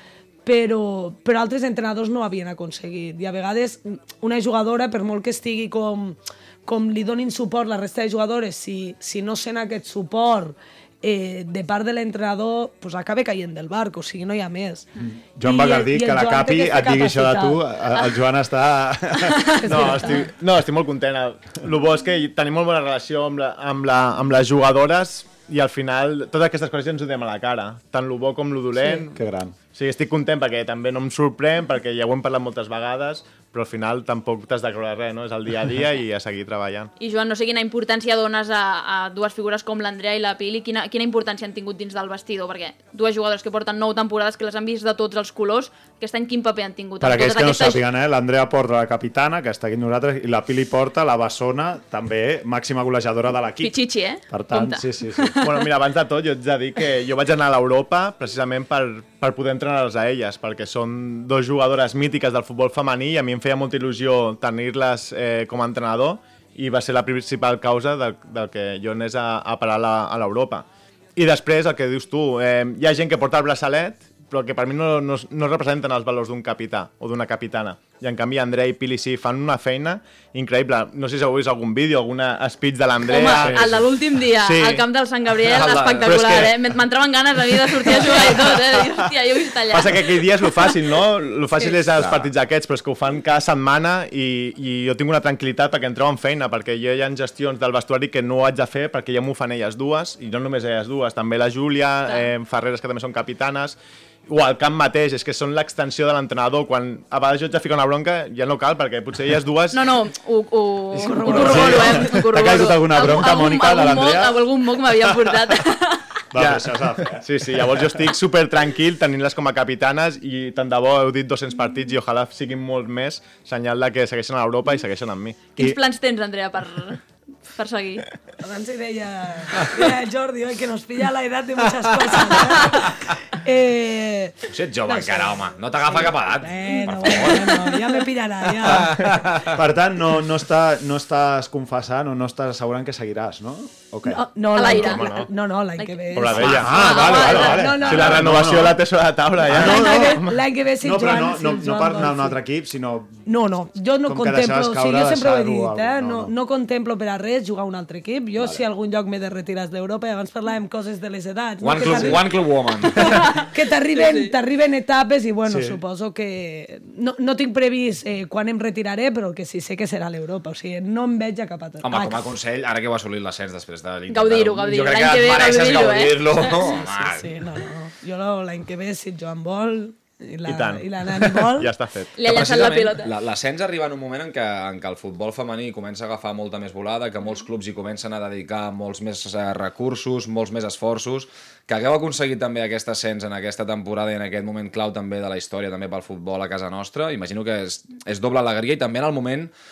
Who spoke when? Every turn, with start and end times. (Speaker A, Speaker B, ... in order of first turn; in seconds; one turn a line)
Speaker A: 0.5-14.9
Speaker B: 15.0-19.6
Speaker A: 15.4-17.6
Speaker A: 19.6-20.3
Speaker C: 19.6-29.2
Speaker B: 29.1-29.6
Speaker C: 29.7-36.9
Speaker D: 37.0-47.8
Speaker B: 47.0-55.4
Speaker D: 53.6-55.5
Speaker C: 55.4-84.8
Speaker D: 83.0-90.3
Speaker E: 85.5-86.6
Speaker C: 89.7-109.9
Speaker E: 92.0-92.3
Speaker D: 109.7-116.2
Speaker C: 111.0-111.8
Speaker A: 111.0-112.2
Speaker B: 111.3-115.6
Speaker B: 116.3-117.8
Speaker C: 116.3-125.5
Speaker D: 125.5-127.0
Speaker D: 127.5-128.1
Speaker A: 128.4-139.1
Speaker E: 134.5-137.8
Speaker E: 138.7-139.4
Speaker B: 139.4-144.2
Speaker A: 144.1-148.2
Speaker D: 144.5-147.8
Speaker C: 144.7-145.3
Speaker C: 146.1-150.4
Speaker B: 146.4-148.8
Speaker B: 149.4-150.2
Speaker A: 149.5-152.4
Speaker B: 150.8-153.2
Speaker A: 153.2-162.4
Speaker B: 154.1-156.3
Speaker E: 161.6-163.3
Speaker A: 162.9-172.3
Speaker D: 163.1-163.4
Speaker D: 163.9-164.3
Speaker B: 165.5-165.8
Speaker E: 171.8-177.3
Speaker D: 174.1-176.7
Speaker A: 176.7-181.7
Speaker C: 180.4-182.1
Speaker D: 182.2-183.1
Speaker E: 182.2-199.5